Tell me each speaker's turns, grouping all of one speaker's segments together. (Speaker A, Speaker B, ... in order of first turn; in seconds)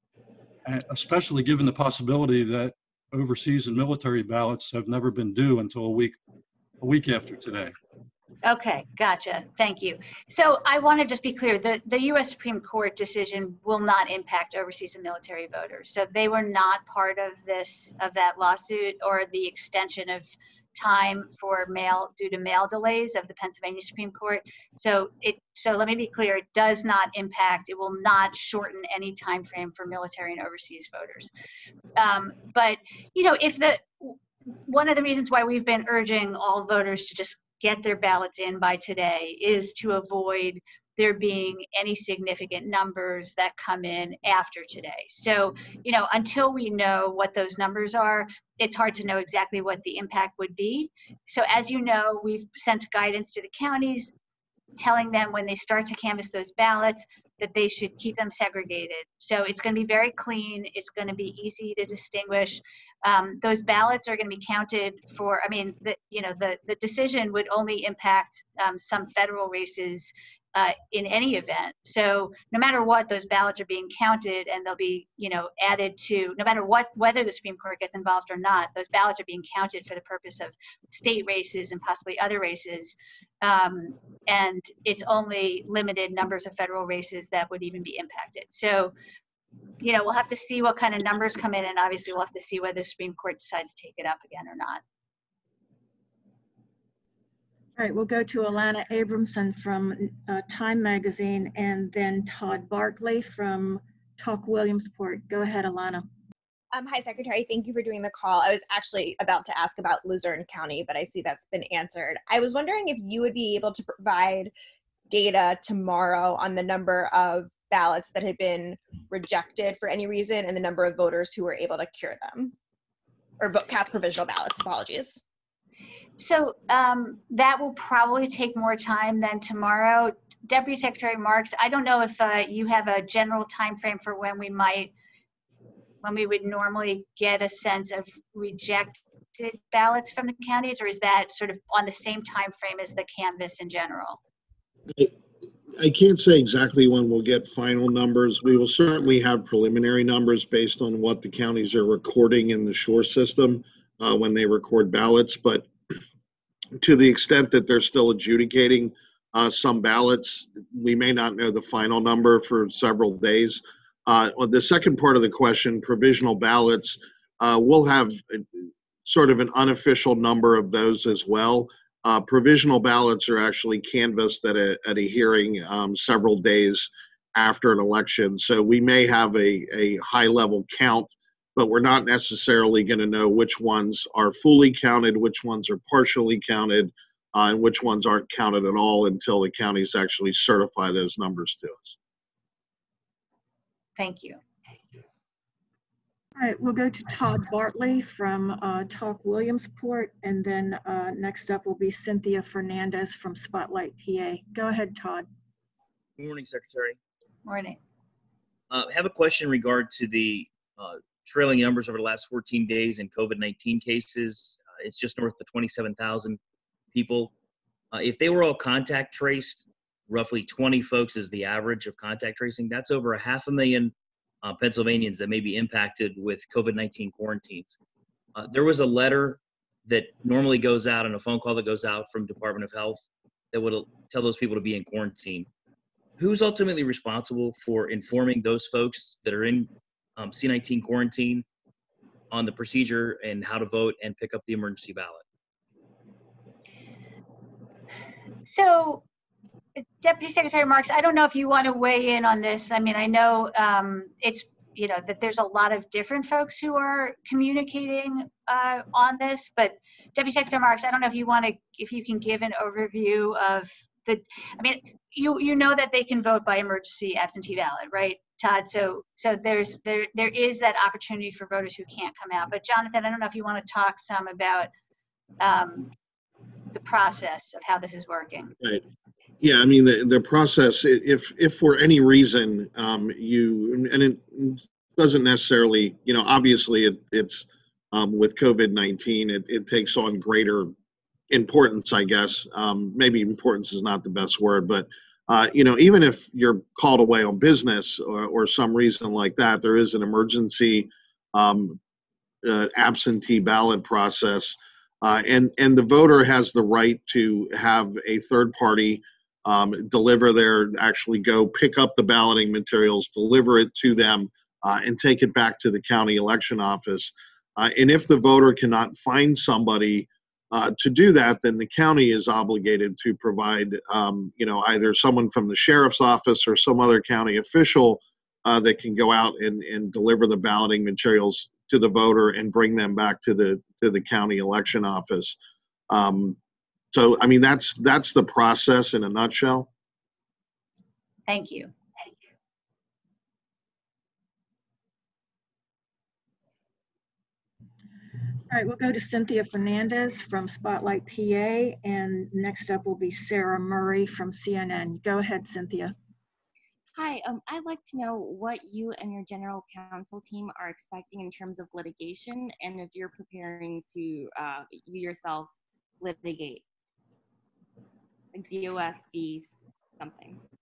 Speaker A: 0.7-6.2, 6.8-7.7
Speaker B: 8.4-31.3, 32.0-54.1, 54.8-88.9, 89.8-94.8, 126.2-134.9, 136.0-144.2, 194.0-194.4, 207.5-207.8, 248.4-249.0, 249.8-274.7, 275.4-275.9, 276.7-278.5, 341.3-341.7
Speaker C: 97.8-106.0, 196.4-205.3, 348.5-355.9
Speaker D: 106.7-114.5, 115.1-122.5, 123.4-125.2
Speaker E: 145.7-155.7, 156.8-192.0, 279.4-290.7, 291.3-301.8, 302.4-335.4, 335.9-336.4, 336.9-339.7
Speaker F: 206.2-207.0, 208.7-216.4, 216.9-217.3, 217.9-227.8, 228.3-235.5, 236.2-241.5, 242.3-245.2
Speaker G: 357.0-366.6, 368.4-370.4